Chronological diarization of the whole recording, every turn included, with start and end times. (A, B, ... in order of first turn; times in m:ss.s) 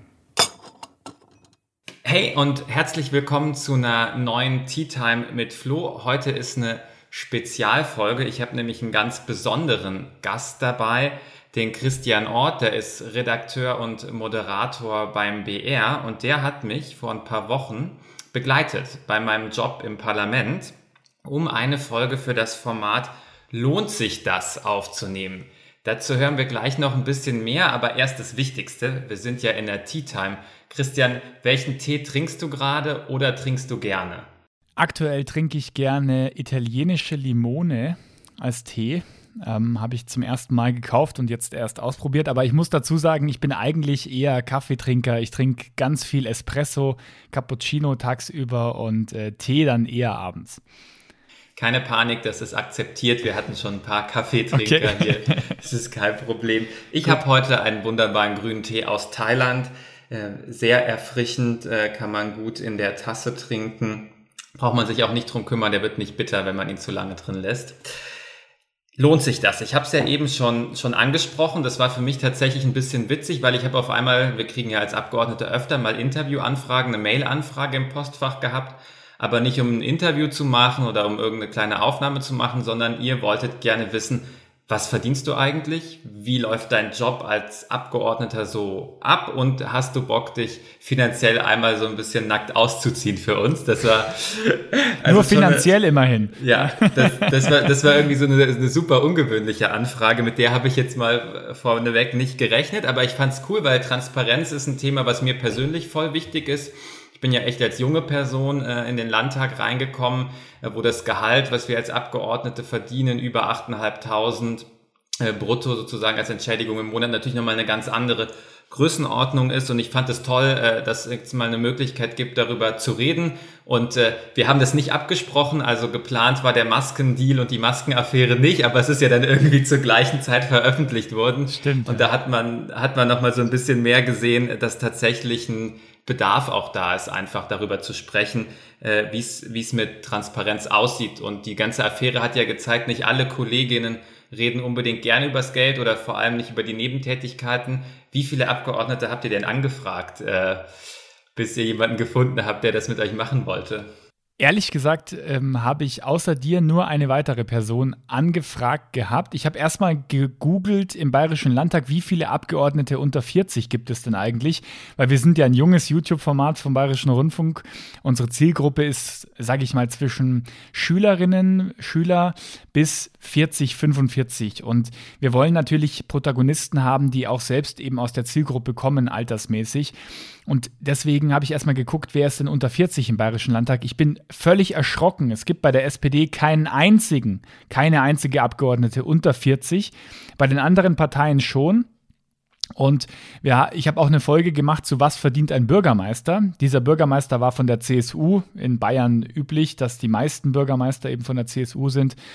0:02.0-0:20.7 A
0:21.2-0:34.3 A
0:34.8-0:50.6 B
0:51.6-1:07.8 A
0:54.5-0:55.5 B
1:09.0-1:35.7 A
1:35.0-1:37.5 B
1:36.4-1:54.7 A
1:55.2-2:30.6 A
2:11.5-2:12.1 B
2:31.3-2:33.9 A
2:34.4-2:59.9 B
3:00.4-3:11.9 B
3:12.8-3:22.2 B